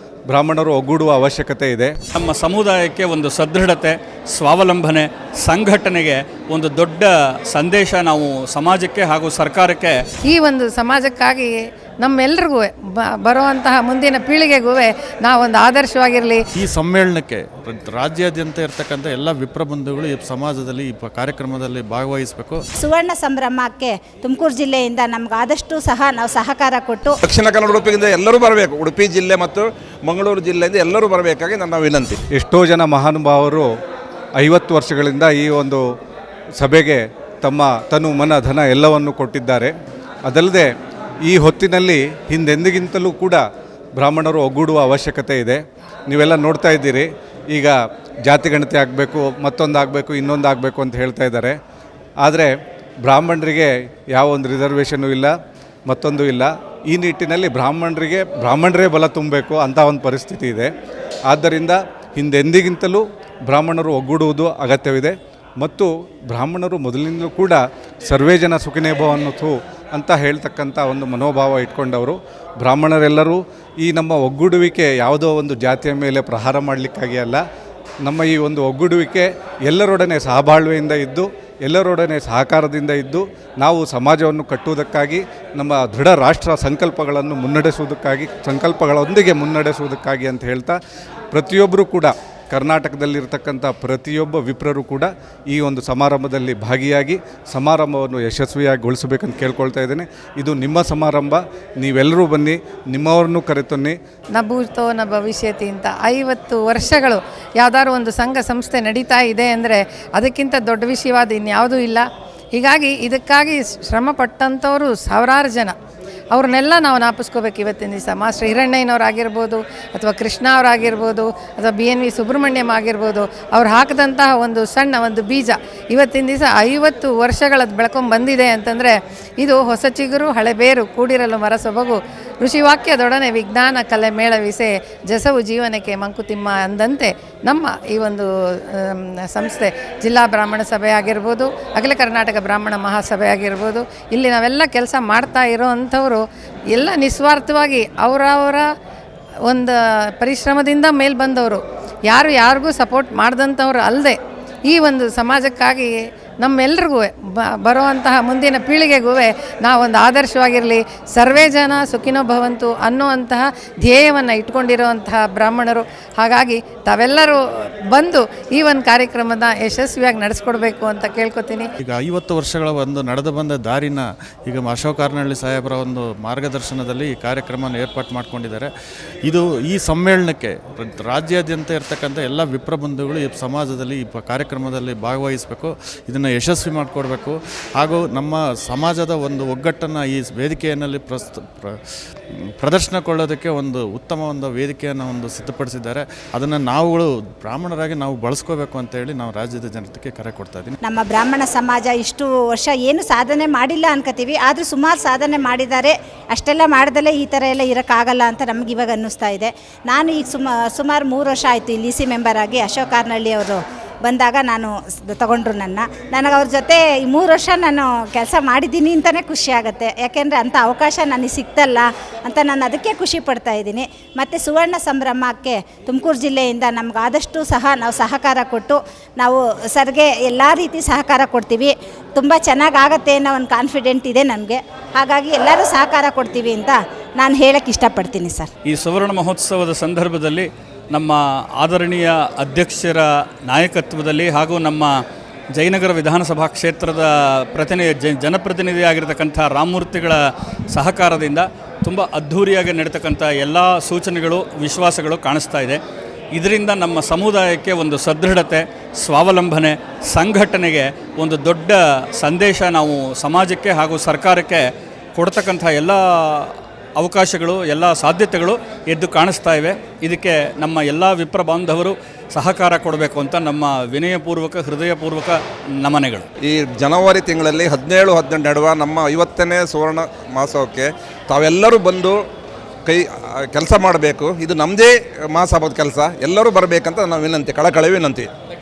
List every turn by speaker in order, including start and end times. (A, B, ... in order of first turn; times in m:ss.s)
0:00.3-0:01.9 A
0:02.1-0:10.0 B
0:10.2-0:16.4 C
0:16.6-0:22.6 D
0:22.8-0:27.2 E
0:27.3-0:32.2 F
0:32.3-0:33.7 A
0:34.4-0:35.8 A
0:36.6-0:39.7 A
0:40.3-0:40.7 A
0:41.2-0:43.4 A
0:44.0-0:47.7 A
0:48.2-0:51.6 A
0:52.2-0:52.5 A
0:53.0-0:55.3 A
0:55.9-1:00.7 A
1:01.3-1:17.4 A
1:18.0-1:30.8 A
1:31.3-1:44.0 A
1:44.3-1:55.7 C
1:56.3-2:28.7 C
2:29.5-2:51.7 C
2:51.8-2:58.7 D
2:59.2-3:11.8 D
3:12.6-3:20.8 D
3:20.8-3:58.5 E
3:58.7-4:05.0 B
4:05.5-4:10.2 B
4:10.7-4:15.8 B
4:16.3-4:24.6 B
4:25.1-4:36.2 B
4:36.4-4:42.2 F
4:42.9-4:48.2 F